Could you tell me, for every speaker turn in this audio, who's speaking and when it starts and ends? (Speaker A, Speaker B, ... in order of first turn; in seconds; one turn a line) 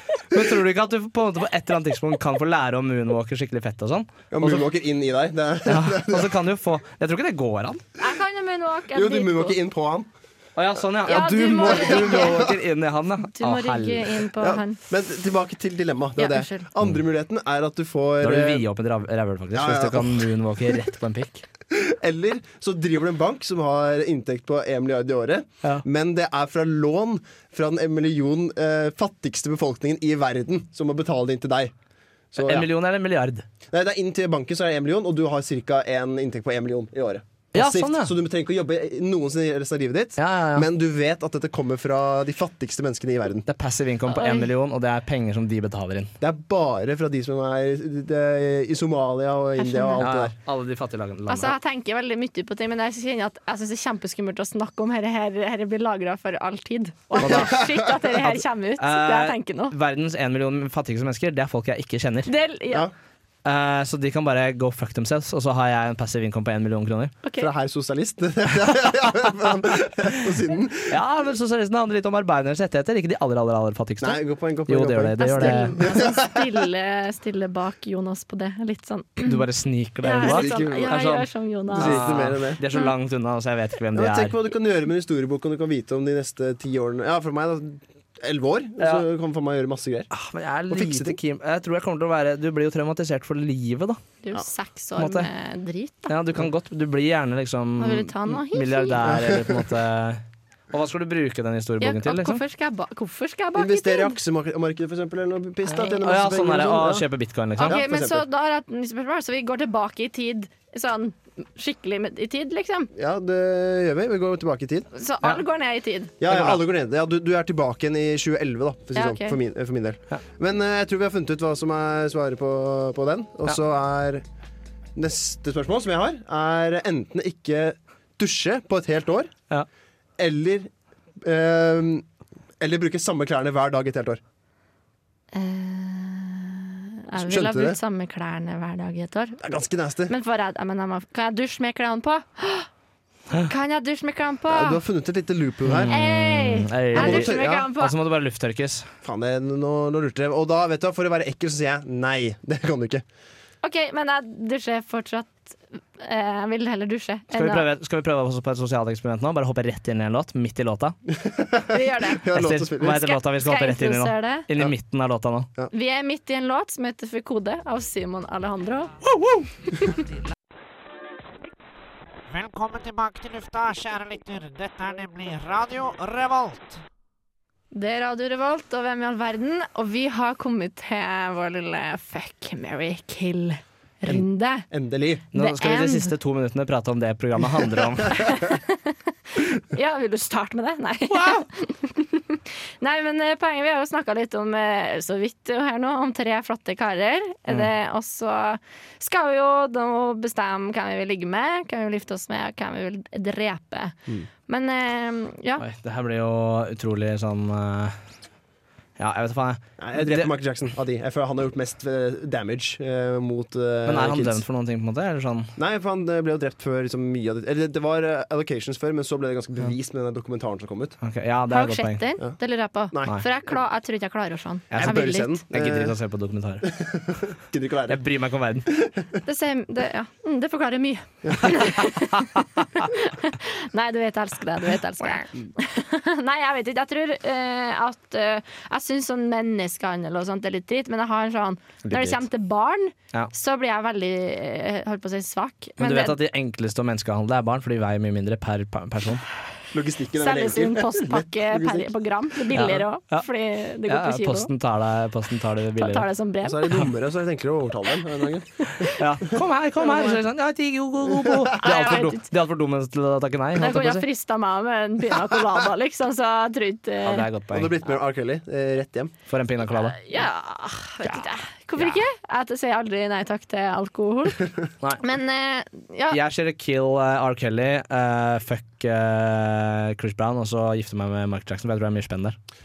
Speaker A: 0.3-4.6
Speaker B: 4.3-6.3
Speaker A: 5.7-7.8
Speaker C: 8.0-9.6
Speaker B: 8.9-10.1
Speaker A: 10.6-14.3
Speaker C: 11.1-12.4
Speaker B: 11.6-12.6
Speaker C: 13.3-14.8
Speaker B: 14.4-18.6
Speaker C: 16.2-16.7
Speaker A: 18.2-21.4
Speaker B: 19.5-20.3
Speaker B: 21.7-31.7
Speaker B: 32.3-32.7
Speaker A: 32.4-33.5
Speaker B: 33.7-43.5
Speaker A: 37.5-38.1
Speaker A: 40.2-40.7
Speaker A: 43.5-46.1
Speaker C: 44.1-44.5
Speaker B: 46.2-50.3
Speaker C: 49.6-50.0
Speaker A: 50.0-51.6
Speaker C: 51.3-59.7
Speaker A: 57.2-57.6
Speaker B: 57.2-57.7
Speaker A: 58.2-62.3
Speaker C: 62.3-62.9
Speaker A: 63.5-67.2
Speaker C: 67.2-67.5
Speaker B: 67.4-71.0
Speaker A: 70.9-75.8
Speaker B: 74.0-76.4
Speaker C: 75.2-79.4
Speaker A: 79.2-84.4
Speaker C: 80.0-82.1
Speaker B: 80.2-81.0
Speaker B: 81.7-82.6
Speaker B: 83.9-90.1
Speaker A: 90.1-94.0
Speaker B: 90.7-91.2
Speaker C: 94.2-96.2
Speaker A: 95.0-95.3
Speaker A: 96.1-102.4
Speaker C: 97.8-99.0
Speaker B: 99.0-99.7
Speaker C: 101.8-104.2
Speaker B: 103.5-107.1
Speaker A: 105.7-107.8
Speaker C: 107.6-112.9
Speaker B: 107.7-108.2
Speaker B: 113.0-114.9
Speaker C: 114.9-116.2
Speaker B: 116.2-124.2
Speaker A: 116.2-116.6
Speaker C: 118.9-119.4
Speaker B: 125.0-129.3
Speaker B: 130.2-132.1
Speaker B: 132.6-134.2
Speaker C: 135.3-139.4
Speaker B: 137.2-137.8
Speaker B: 139.4-140.1
Speaker C: 140.1-142.7
Speaker C: 143.4-144.8
Speaker B: 144.5-146.0
Speaker A: 145.7-148.9
Speaker C: 145.9-147.9
Speaker B: 146.9-147.7
Speaker B: 149.0-153.0
Speaker C: 153.6-157.7
Speaker A: 157.3-161.0
Speaker B: 161.1-163.1
Speaker C: 161.7-162.2
Speaker A: 162.3-165.5
Speaker C: 162.9-164.5
Speaker C: 165.7-169.0
Speaker A: 169.2-169.4
Speaker D: 172.3-176.8
Speaker C: 177.7-184.7
Speaker B: 184.1-185.3
Speaker A: 185.3-188.3
Speaker C: 185.3-186.1
Speaker C: 188.1-203.9
Speaker A: 191.1-191.5
Speaker C: 204.5-205.6
Speaker A: 205.6-208.0
Speaker A: 209.0-210.3
Speaker B: 209.8-214.4
Speaker A: 213.9-215.5
Speaker B: 215.6-221.0
Speaker A: 221.0-222.0
Speaker C: 221.5-225.4
Speaker A: 224.7-226.7
Speaker B: 224.8-226.0
Speaker B: 226.6-228.1
Speaker A: 227.9-228.7
Speaker B: 228.7-229.1
Speaker C: 229.2-246.2
Speaker A: 241.9-242.2
Speaker A: 245.8-249.2
Speaker B: 249.7-251.9
Speaker C: 250.2-254.5
Speaker A: 252.5-253.2
Speaker A: 253.9-256.1
Speaker C: 255.8-256.7
Speaker B: 256.4-258.9
Speaker A: 258.9-264.1
Speaker C: 259.8-260.2
Speaker C: 261.6-262.3
Speaker C: 263.6-267.3
Speaker A: 267.0-267.8
Speaker B: 267.5-269.1
Speaker A: 269.3-270.1
Speaker C: 269.7-274.4
Speaker A: 271.1-272.0
Speaker C: 275.0-276.2
Speaker A: 276.1-282.4